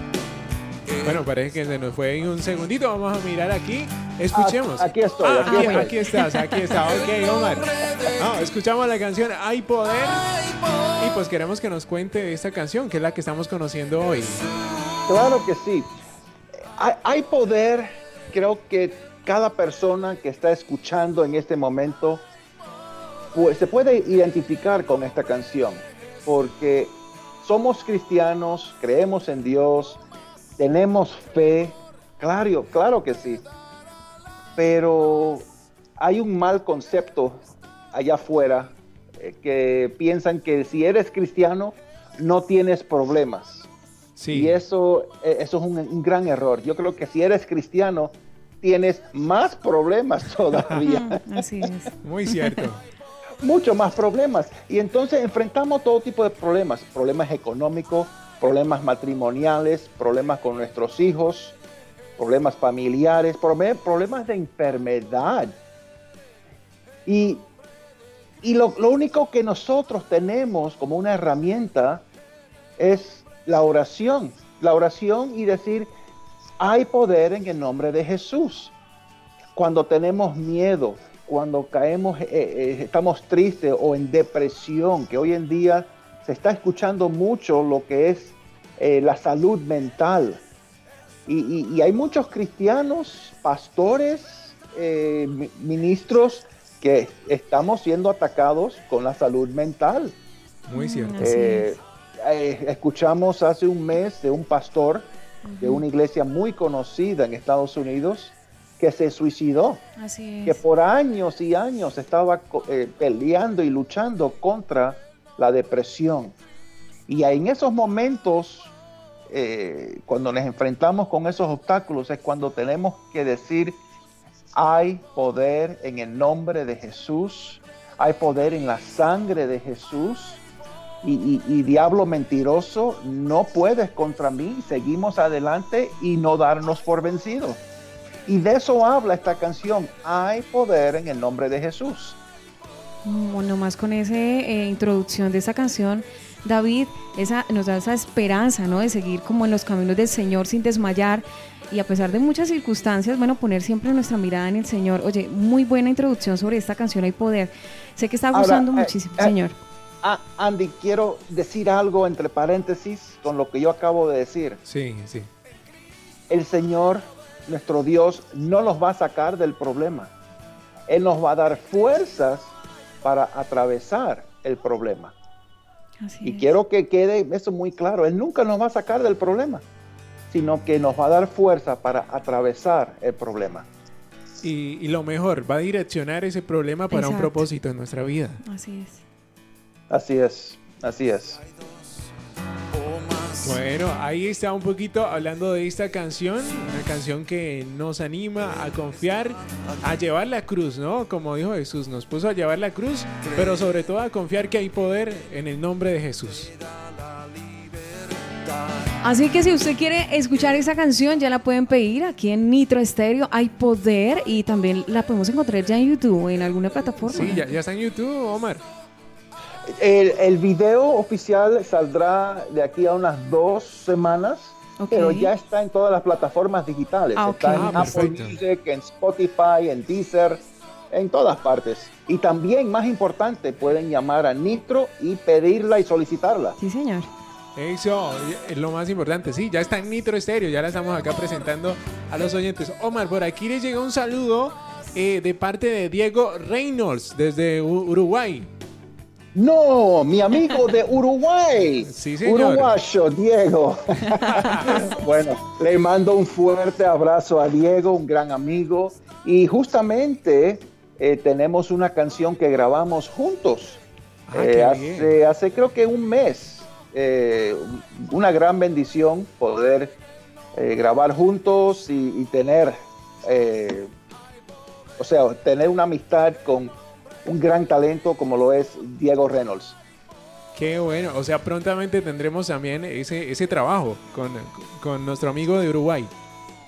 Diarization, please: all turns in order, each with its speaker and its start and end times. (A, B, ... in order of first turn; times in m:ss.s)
0:01.0-0:14.5 A
0:04.3-0:06.0 B
0:05.4-0:06.2 C
0:15.1-0:15.9 B
0:16.8-0:22.3 B
0:23.3-0:30.0 B
0:30.6-0:33.4 B
0:34.6-0:35.5 B
0:36.0-0:37.4 B
0:37.9-0:43.7 B
0:44.2-0:44.6 A
0:44.3-0:51.2 B
0:50.8-0:52.6 C
0:52.0-0:52.8 A
0:53.4-1:01.6 B
1:02.2-1:05.6 B
1:07.0-1:07.4 B
1:08.4-1:12.0 B
1:12.8-1:15.9 B
1:16.6-1:18.7 B
1:19.5-1:30.4 B
1:31.2-1:40.2 B
1:40.7-1:41.2 A
1:40.7-1:41.8 C
1:41.2-1:45.1 B
1:45.4-1:45.8 C
1:45.6-1:49.8 B
1:50.0-1:50.6 C
1:50.4-1:56.4 B
1:57.1-1:58.7 B
1:59.3-2:03.8 B
2:04.5-2:10.4 B
2:11.0-2:17.6 B
2:18.2-2:22.2 B
2:23.0-2:39.6 C
2:38.3-2:39.3 B
2:40.0-2:44.6 B
2:44.6-2:45.3 A
2:46.3-2:50.1 B
2:50.9-2:55.1 B
2:56.0-2:56.5 C
2:56.2-2:59.6 B
3:00.3-3:03.7 B
3:04.4-3:08.4 A
3:06.9-3:07.4 C
3:08.4-3:09.0 C
3:09.9-3:11.4 B
3:12.9-3:13.2 B
3:13.4-3:26.5 A
3:29.0-3:37.5 C
3:37.1-3:38.6 A
3:39.7-3:56.6 B
3:44.8-3:45.3 C
3:47.1-3:48.0 C
3:47.5-3:48.4 A
3:56.6-3:57.1 C
3:57.6-4:08.5 A
4:09.3-4:23.8 B
4:11.7-4:12.7 A
4:14.1-4:14.5 C
4:14.3-4:14.7 A
4:24.3-4:25.2 A
4:24.3-4:30.0 B
4:30.5-4:33.9 B
4:35.0-4:39.8 B
4:40.5-4:46.1 A